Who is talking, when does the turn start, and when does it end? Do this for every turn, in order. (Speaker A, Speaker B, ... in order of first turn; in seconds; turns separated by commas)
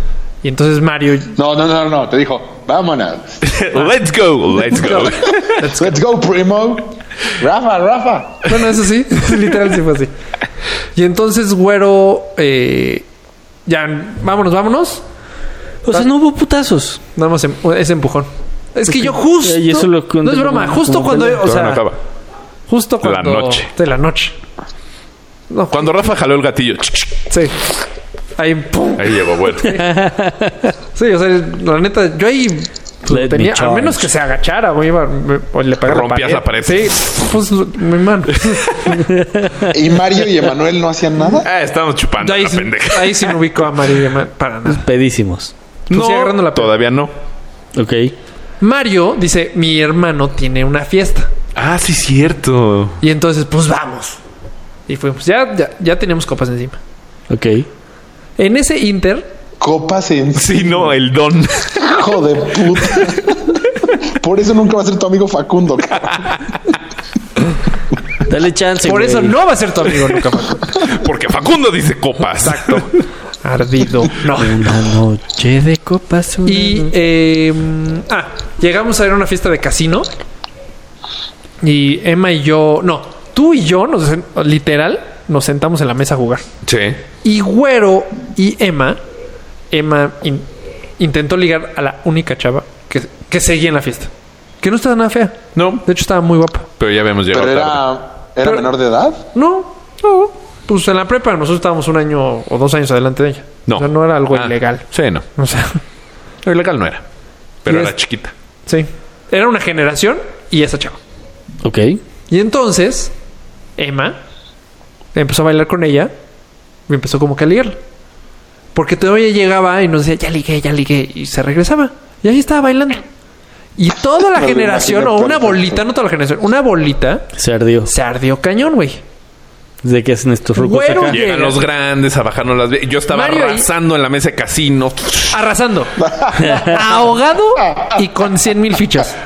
Speaker A: 0.4-1.3, Speaker B: 1.3-3.4, Speaker C: 3.4-5.6, Speaker A: 4.7-6.0, Speaker B: 5.8-8.5, Speaker A: 8.5-10.1, Speaker A: 10.9-13.0, Speaker A: 13.7-15.0, Speaker D: 15.8-17.0, Speaker A: 17.1-21.8, Speaker D: 18.9-21.5, Speaker C: 21.4-22.0, Speaker A: 22.7-24.4, Speaker C: 23.0-23.7, Speaker A: 25.5-25.9, Speaker C: 25.7-27.2, Speaker A: 27.3-27.6, Speaker A: 28.4-29.9, Speaker C: 29.0-29.8, Speaker D: 29.7-30.7, Speaker A: 30.9-39.0, Speaker D: 33.1-34.1, Speaker C: 35.8-37.3, Speaker C: 38.5-39.0, Speaker D: 39.0-39.7, Speaker B: 39.7-41.5, Speaker C: 41.4-43.6, Speaker A: 42.2-44.9, Speaker D: 44.6-45.5, Speaker A: 45.9-46.7, Speaker C: 45.9-47.1, Speaker D: 47.7-48.1, Speaker A: 48.6-51.3, Speaker C: 51.5-53.0, Speaker A: 53.0-54.2, Speaker A: 54.9-56.8, Speaker D: 57.3-57.7, Speaker A: 58.4-59.3, Speaker B: 59.6-60.9, Speaker C: 60.3-61.9, Speaker B: 61.8-63.4, Speaker B: 64.1-66.3, Speaker C: 66.1-66.4, Speaker D: 68.2-69.4, Speaker A: 68.8-70.8, Speaker C: 70.7-72.8, Speaker A: 72.4-74.7, Speaker D: 74.4-76.9, Speaker A: 76.4-80.1, Speaker A: 81.6-86.4, Speaker C: 86.6-87.0, Speaker A: 87.2-89.0, Speaker A: 89.7-90.5, Speaker A: 91.0-94.1, Speaker A: 94.6-96.7, Speaker C: 95.5-95.8, Speaker C: 96.8-97.8, Speaker B: 97.3-99.3, Speaker A: 99.3-104.8, Speaker C: 103.7-105.2, Speaker A: 105.4-105.8, Speaker C: 106.4-107.0, Speaker C: 107.6-108.3, Speaker A: 107.7-107.9, Speaker A: 108.7-111.0, Speaker D: 111.6-112.0, Speaker A: 112.3-113.1, Speaker A: 113.8-114.2, Speaker A: 115.1-116.1, Speaker A: 116.9-117.8, Speaker A: 118.7-123.0, Speaker A: 123.8-127.3, Speaker B: 124.2-125.8, Speaker D: 127.3-127.9, Speaker A: 127.8-129.0, Speaker D: 129.8-131.2, Speaker A: 130.6-131.6, Speaker C: 131.1-135.3, Speaker A: 133.1-133.7, Speaker A: 135.3-135.9, Speaker B: 136.0-136.6, Speaker D: 136.3-136.8, Speaker A: 136.5-139.2